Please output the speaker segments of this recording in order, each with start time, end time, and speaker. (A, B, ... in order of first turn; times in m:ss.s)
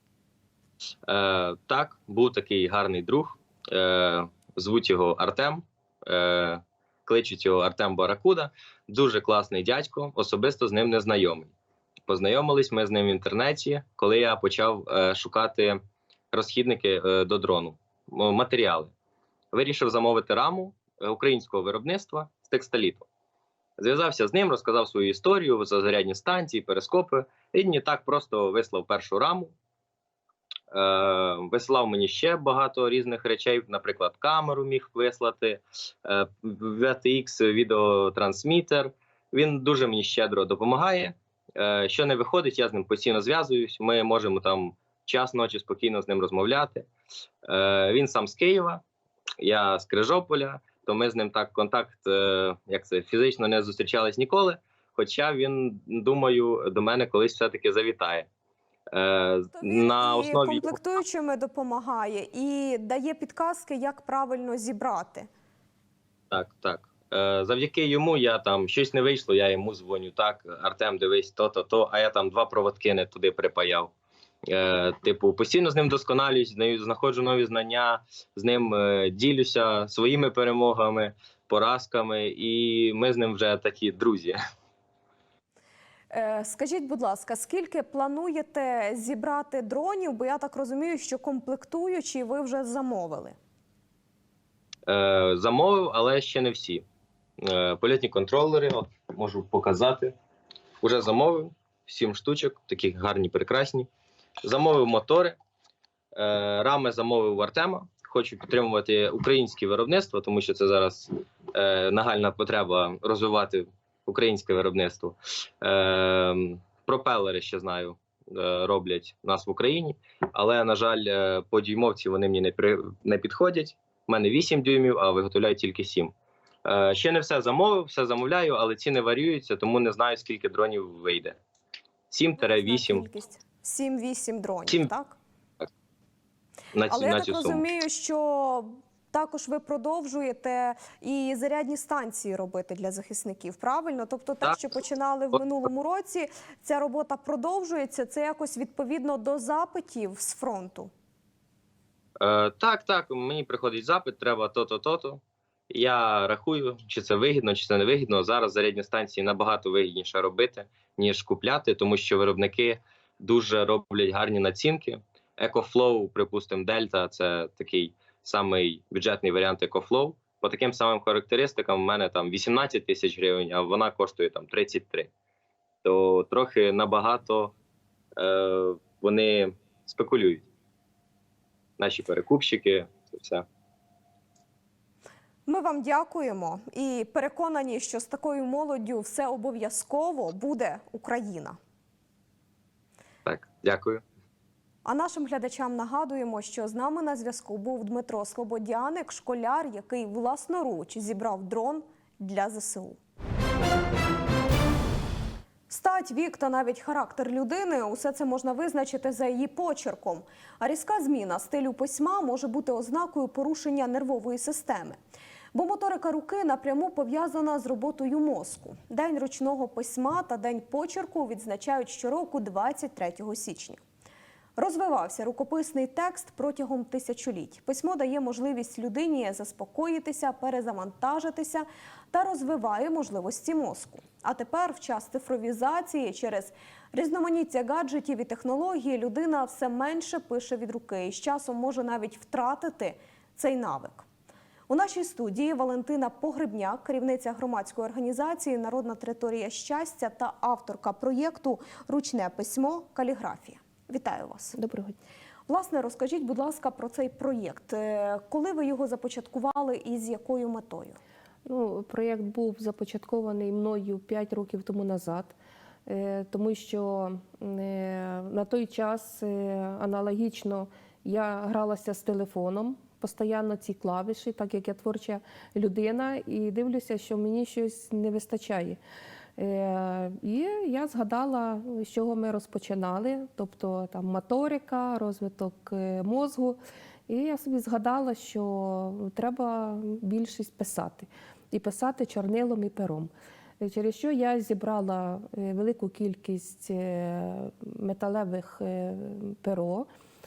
0:01.0-0:11.5 A
0:12.1-0:15.8 A
0:16.3-0:18.9 A
0:19.5-0:23.0 A
0:23.8-0:29.5 A
0:30.7-0:46.9 A
0:47.4-0:48.8 A
0:49.4-0:58.3 A
0:58.9-1:00.8 A
0:59.6-1:05.3 B
1:06.3-1:13.9 A
1:14.5-1:24.4 A
1:26.1-1:33.4 B
1:34.9-1:36.8 A
1:37.4-1:40.1 A
1:40.8-1:43.9 A
1:44.4-1:45.4 A
1:46.1-2:06.1 A
2:06.6-2:11.4 A
2:12.1-2:13.0 A
2:12.4-2:15.2 B
2:16.7-2:17.6 A
2:16.9-2:30.9 B
2:32.2-2:55.1 A
2:55.8-2:57.5 A
2:58.2-3:00.4 A
3:01.8-3:03.4 A
3:05.4-3:11.6 B
3:13.2-3:14.0 A
3:14.8-3:23.0 B
3:25.7-3:35.0 B
3:35.5-3:43.8 B
3:44.6-4:04.0 B
4:04.7-4:14.6 B
4:14.5-4:15.0 C
4:15.5-4:21.0 B
4:21.4-4:38.8 C
4:39.4-4:59.9 C